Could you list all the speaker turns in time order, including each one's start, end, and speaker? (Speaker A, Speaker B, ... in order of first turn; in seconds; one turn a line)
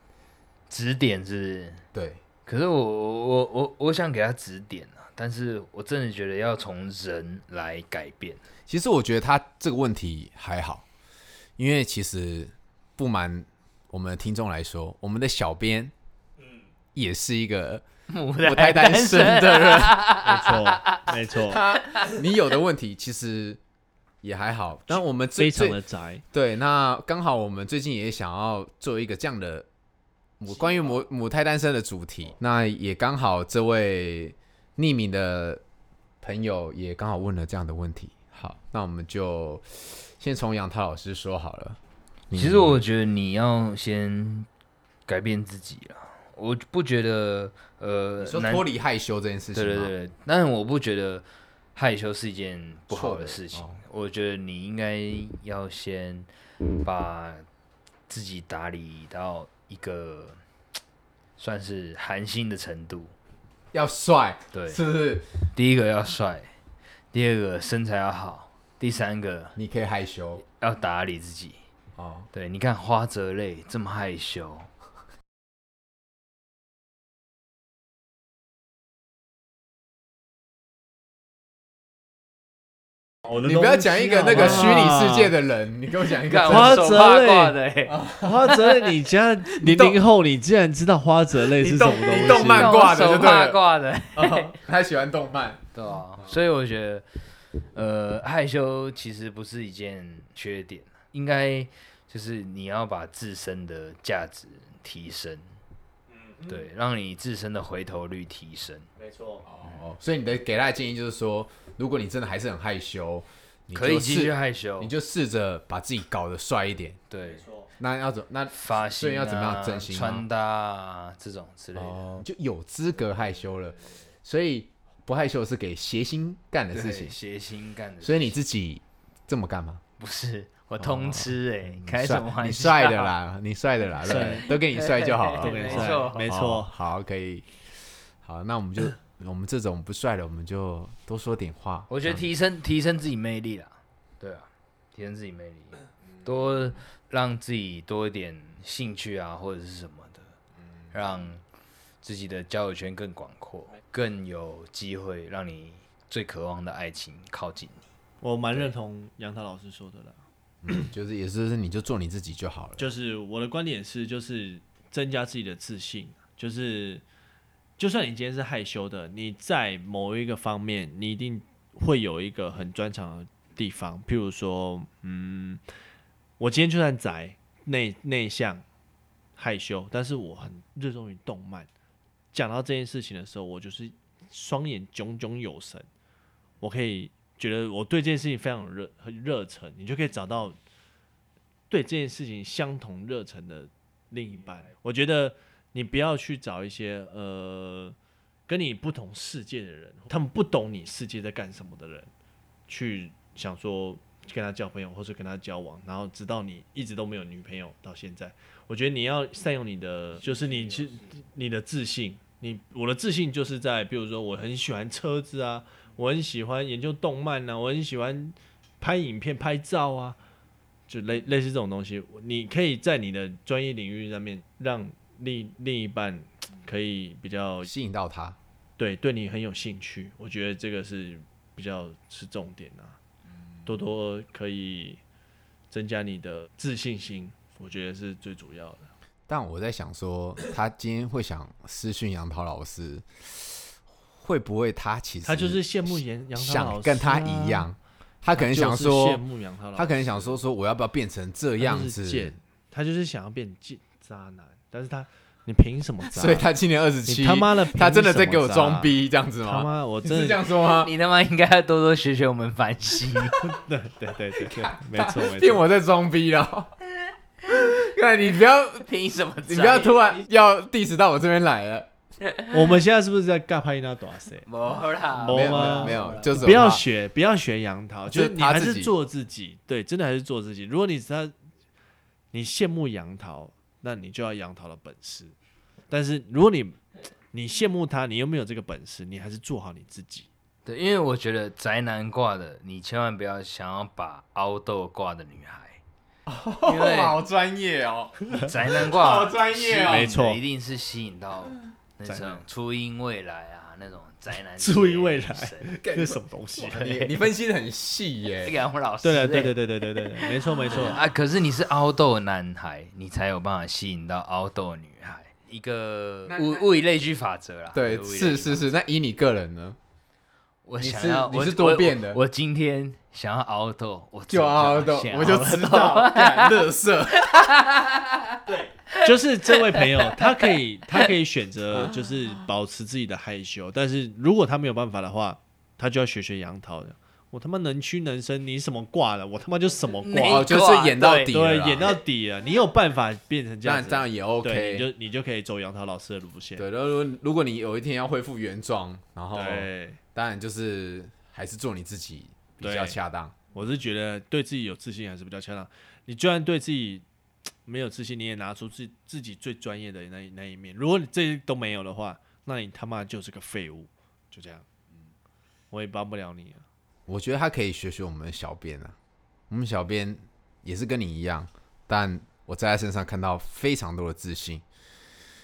Speaker A: 0.7-1.8
Speaker B: 1.9-2.2
Speaker A: 2.5-8.4
Speaker B: 8.7-10.8
Speaker B: 11.6-15.9
Speaker B: 16.9-17.8
Speaker A: 18.1-21.0
Speaker B: 18.4-20.0
Speaker C: 20.2-21.6
Speaker B: 21.4-23.6
Speaker B: 24.2-25.8
Speaker C: 24.9-26.2
Speaker B: 26.3-29.7
Speaker B: 30.4-35.6
Speaker B: 36.2-41.8
Speaker B: 42.3-42.8
Speaker A: 42.3-44.5
Speaker A: 45.1-48.6
Speaker B: 48.2-49.9
Speaker A: 49.5-56.3
Speaker B: 52.9-53.8
Speaker A: 56.8-57.4
Speaker A: 58.1-60.4
Speaker A: 61.4-63.1
Speaker B: 63.7-65.3
Speaker A: 64.5-64.8
Speaker A: 65.5-66.5
Speaker A: 67.1-69.5
Speaker B: 69.5-70.4
Speaker A: 70.5-71.6
Speaker B: 72.0-72.3
Speaker A: 72.3-74.7
Speaker B: 83.3-87.2
Speaker C: 83.9-85.3
Speaker A: 86.2-88.6
Speaker C: 86.4-87.5
Speaker B: 87.9-88.5
Speaker C: 88.2-92.8
Speaker B: 89.5-90.0
Speaker B: 91.6-93.6
Speaker A: 92.1-94.6
Speaker B: 94.1-95.6
Speaker A: 95.7-97.1
Speaker A: 97.7-105.6
Speaker C: 106.1-106.7
Speaker A: 106.5-108.9
Speaker C: 109.0-109.4
Speaker B: 109.4-117.0
Speaker A: 113.7-114.9
Speaker A: 117.1-117.5
Speaker C: 117.2-117.7
Speaker B: 117.8-120.2
Speaker A: 118.5-122.2
Speaker B: 121.8-127.2
Speaker A: 126.7-128.4
Speaker B: 128.0-129.8
Speaker A: 130.0-133.1
Speaker B: 130.8-137.5
Speaker C: 134.0-134.5
Speaker A: 134.1-136.3
Speaker C: 135.4-136.7
Speaker B: 138.2-142.3
Speaker A: 141.9-150.3
Speaker A: 150.9-151.4
Speaker A: 152.0-157.8
Speaker C: 158.2-160.2
Speaker B: 160.6-162.8
Speaker C: 162.8-167.0
Speaker C: 167.8-175.6
Speaker C: 176.4-178.6
Speaker C: 179.4-181.7
Speaker C: 182.3-185.9
Speaker C: 186.6-190.6
Speaker C: 191.7-197.9
Speaker C: 198.5-202.1
Speaker C: 202.7-220.2
Speaker C: 220.9-227.7
Speaker B: 227.6-228.4
Speaker C: 228.8-233.0
Speaker C: 233.7-235.0
Speaker C: 235.7-238.9
Speaker B: 239.3-249.2
Speaker C: 245.2-247.7
Speaker C: 248.3-250.4
Speaker B: 249.7-252.3
Speaker C: 251.6-256.5
Speaker B: 256.1-260.9
Speaker C: 257.1-258.9
Speaker C: 259.4-260.4
Speaker A: 260.6-263.4
Speaker C: 263.4-265.6
Speaker B: 264.4-266.7
Speaker B: 267.4-268.9
Speaker A: 268.8-270.2
Speaker B: 269.4-271.9
Speaker C: 272.5-274.4
Speaker A: 274.4-276.4
Speaker C: 275.2-281.3
Speaker B: 275.2-276.8
Speaker B: 278.1-278.9
Speaker C: 282.3-285.3
Speaker C: 285.9-286.8
Speaker C: 287.3-290.3
Speaker A: 290.6-295.8
Speaker B: 296.2-300.1
Speaker A: 296.6-297.2
Speaker A: 298.3-305.8
Speaker C: 299.8-300.4
Speaker C: 302.1-302.4
Speaker C: 304.6-306.8
Speaker B: 305.7-308.6
Speaker A: 306.7-307.3
Speaker A: 308.4-309.6
Speaker C: 309.0-311.0
Speaker A: 310.1-318.7
Speaker B: 316.3-316.6
Speaker B: 317.7-319.8
Speaker A: 320.6-326.6
Speaker B: 320.8-322.2
Speaker B: 324.3-327.3
Speaker A: 327.2-328.4
Speaker C: 328.5-340.5
Speaker A: 340.0-341.9
Speaker B: 340.2-341.9
Speaker C: 341.3-346.6
Speaker B: 343.6-344.9
Speaker B: 346.6-353.4
Speaker C: 349.3-350.0
Speaker C: 352.6-353.0
Speaker C: 353.5-357.0
Speaker C: 357.6-364.6
Speaker C: 365.7-366.6
Speaker B: 367.1-368.9
Speaker B: 369.5-374.6